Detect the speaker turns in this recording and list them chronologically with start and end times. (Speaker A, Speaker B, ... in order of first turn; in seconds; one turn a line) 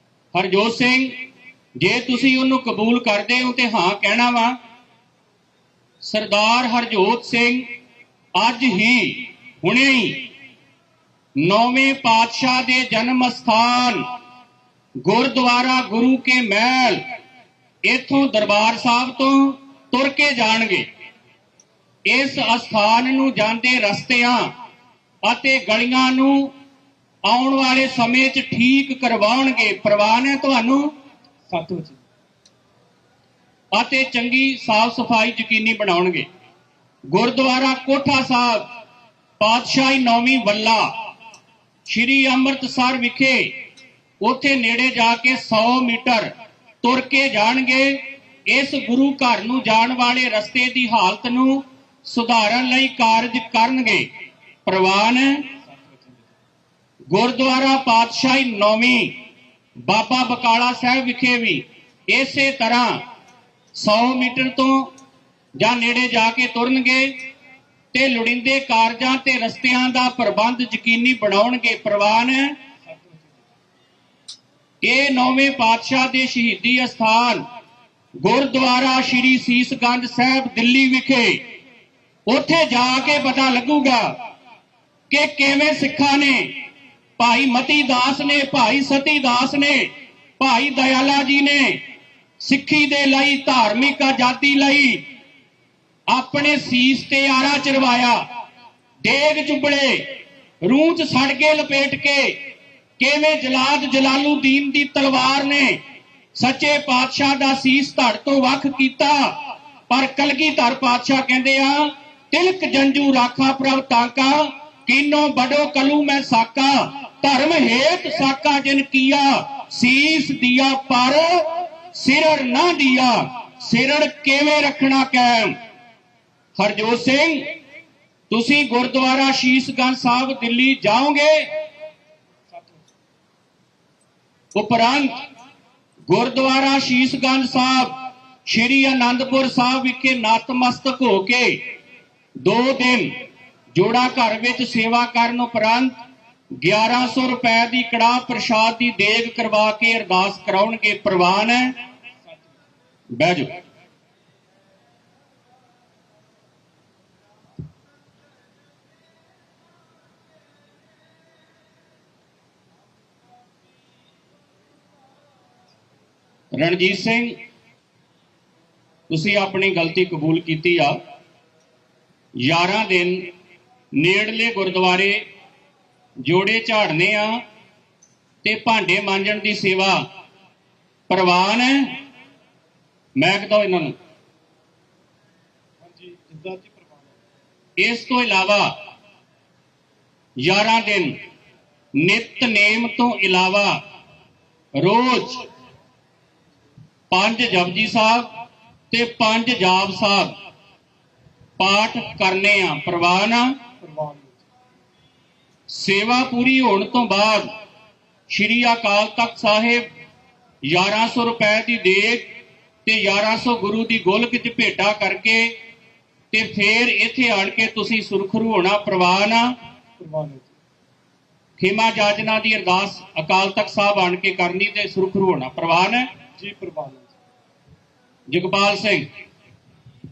Speaker A: 0.3-1.1
Speaker A: 1.8-4.6
Speaker A: 6.0-7.7
Speaker A: 8.3-10.3
Speaker A: 11.4-14.0
Speaker A: 15.0-17.0
Speaker A: 17.8-20.9
Speaker A: 22.1-24.5
Speaker A: 25.2-26.5
Speaker A: 27.2-30.9
Speaker B: 31.5-32.0
Speaker A: 33.7-36.2
Speaker A: 37.1-38.6
Speaker A: 39.4-40.9
Speaker A: 41.9-43.5
Speaker A: 44.2-46.3
Speaker A: 46.8-54.1
Speaker A: 54.6-55.5
Speaker B: 55.6-56.3
Speaker A: 57.1-59.1
Speaker A: 59.9-63.0
Speaker A: 63.8-64.9
Speaker A: 65.6-67.1
Speaker A: 67.9-72.5
Speaker B: 72.8-73.5
Speaker A: 74.8-77.4
Speaker A: 78.2-81.4
Speaker A: 82.3-84.1
Speaker A: 85.1-86.5
Speaker A: 87.2-89.9
Speaker A: 90.4-91.8
Speaker A: 92.4-95.0
Speaker A: 96.1-98.2
Speaker A: 99.0-100.1
Speaker A: 100.6-102.3
Speaker A: 103.0-105.8
Speaker A: 106.3-109.4
Speaker A: 109.9-125.5
Speaker A: 126.6-127.4
Speaker A: 128.3-131.4
Speaker B: 132.5-132.9
Speaker A: 134.5-135.2
Speaker A: 136.1-141.6
Speaker A: 142.4-143.1
Speaker A: 143.7-146.0
Speaker A: 146.6-151.7
Speaker A: 153.1-153.5
Speaker A: 166.5-167.3
Speaker A: 169.1-171.0
Speaker A: 172.4-173.3
Speaker A: 173.9-175.2
Speaker A: 176.2-177.4
Speaker A: 178.4-180.0
Speaker A: 181.1-182.0
Speaker A: 183.2-183.9
Speaker B: 185.8-187.2
Speaker A: 187.8-188.7
Speaker A: 190.4-191.1
Speaker A: 192.0-193.8
Speaker A: 194.8-195.4
Speaker A: 197.1-198.3
Speaker A: 198.9-200.3
Speaker A: 201.6-203.5
Speaker B: 203.8-204.4
Speaker A: 205.7-207.5
Speaker A: 208.3-209.8
Speaker A: 210.7-212.2
Speaker A: 212.8-215.5
Speaker A: 216.3-219.5
Speaker B: 220.0-220.5
Speaker A: 221.6-226.1
Speaker B: 226.4-227.1
Speaker A: 228.3-229.0